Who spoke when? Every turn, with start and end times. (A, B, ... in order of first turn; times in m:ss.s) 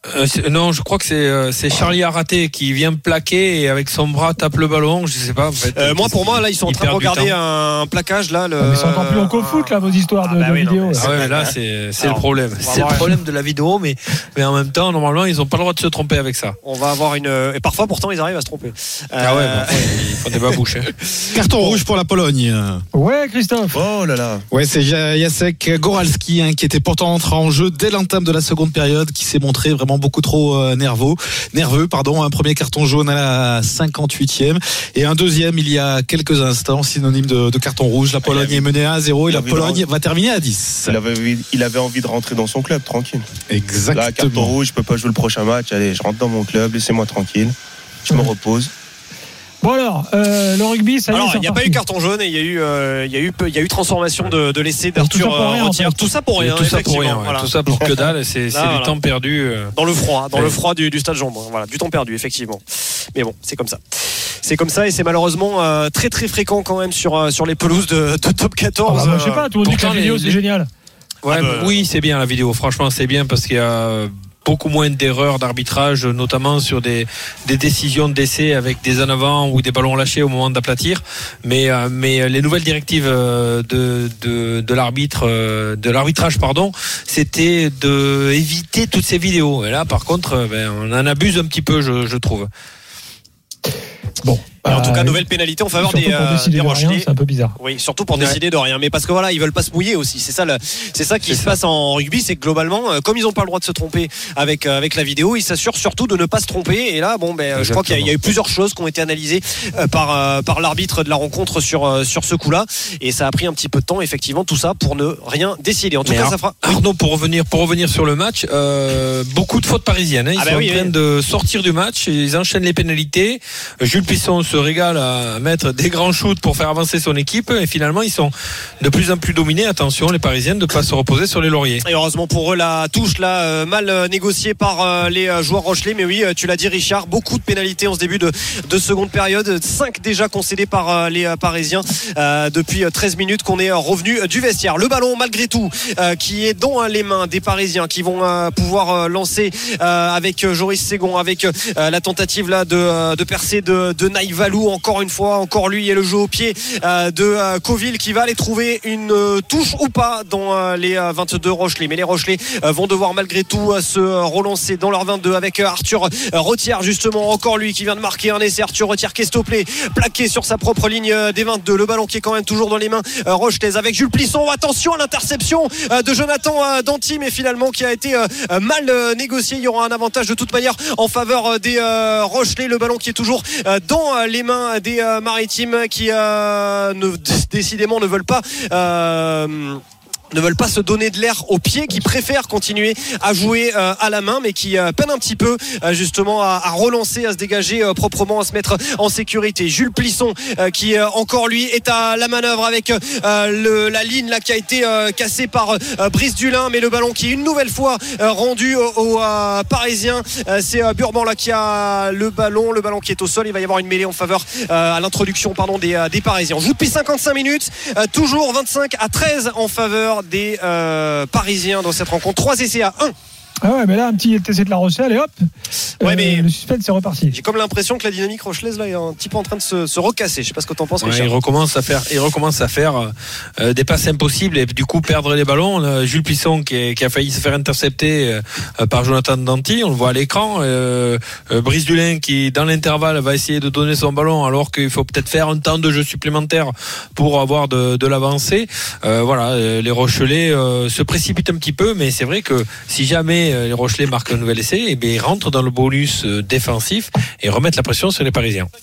0:00.1-0:07.4 A
0:05.8-0:13.2 B
0:08.6-0:11.1 C
0:11.0-0:16.6 A
0:16.6-0:21.8 B
0:19.2-0:20.9 A
0:21.3-0:22.8 D
0:22.9-0:23.8 C
0:23.7-0:24.4 E
0:24.5-0:41.0 D
0:38.3-0:38.6 E
0:39.3-0:39.8 E
0:40.9-0:43.2 E
0:43.5-0:44.5 D
0:43.9-0:47.5 E
0:48.1-0:48.7 E
0:49.6-0:51.8 C
0:51.1-0:59.0 B
0:55.0-0:56.0 C
0:56.4-0:59.8 A
0:59.7-1:09.5 B
1:08.9-1:10.7 C
1:09.0-1:10.4 A
1:11.2-1:32.5 A
1:11.3-1:11.8 B
1:34.2-1:35.2 C
1:34.7-1:37.1 B
1:35.8-1:37.6 C
1:37.6-1:56.8 B
1:38.1-1:38.4 A
1:41.2-1:41.6 A
1:47.5-1:48.1 A
1:56.0-2:11.8 A
2:00.4-2:00.9 B
2:11.8-3:09.8 B
3:10.3-3:43.2 B
3:43.6-3:45.4 C
3:46.0-3:46.5 B
3:46.0-3:47.4 C
3:47.3-3:51.3 B
3:51.0-4:18.7 A